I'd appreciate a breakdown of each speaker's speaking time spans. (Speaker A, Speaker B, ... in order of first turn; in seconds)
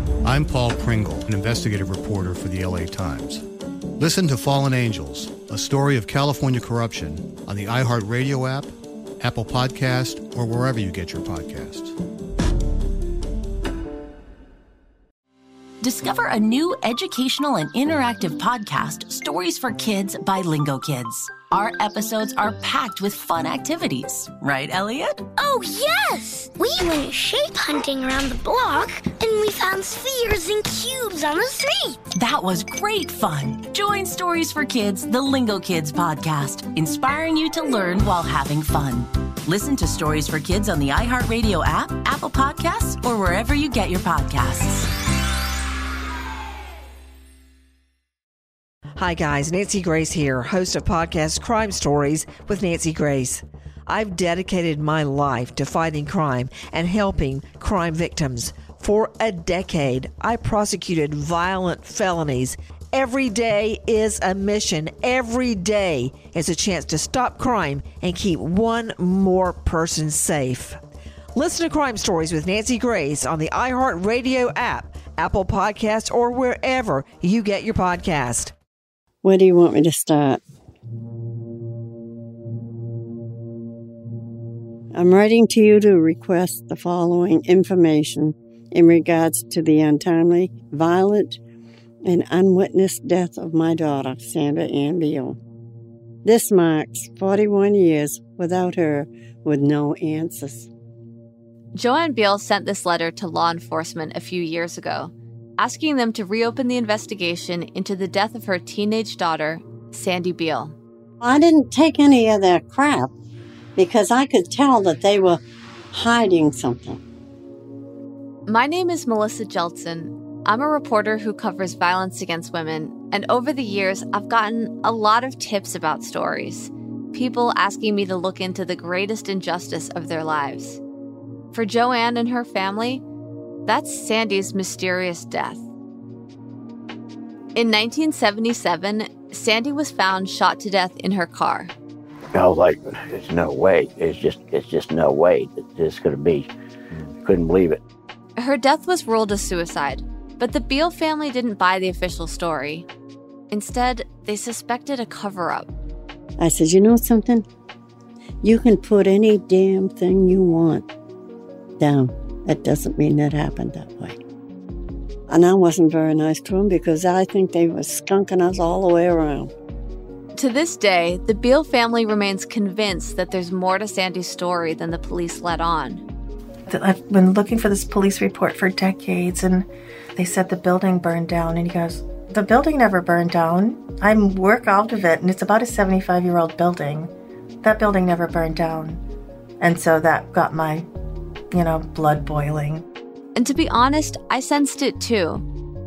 Speaker A: 0.2-3.4, 4.0-11.9
Speaker B: 15.8-25.2, 32.1-44.9
Speaker C: 25.4-32.0
Speaker D: 49.0-70.8, 71.3-78.5
Speaker E: 79.2-80.4, 84.9-91.4, 92.0-95.4, 96.2-100.7, 111.2-113.1, 113.8-117.0, 156.4-157.4, 158.4-160.9, 161.8-164.2, 165.3-169.5
Speaker F: 101.7-110.7, 118.5-130.8, 131.5-133.0, 133.7-135.6, 137.5-141.7, 148.4-152.8, 153.5-155.7, 170.3-176.0, 193.3-195.4
Speaker G: 142.3-146.5, 147.2-147.8
Speaker H: 176.7-187.1, 187.6-189.0, 189.6-190.8, 191.5-192.8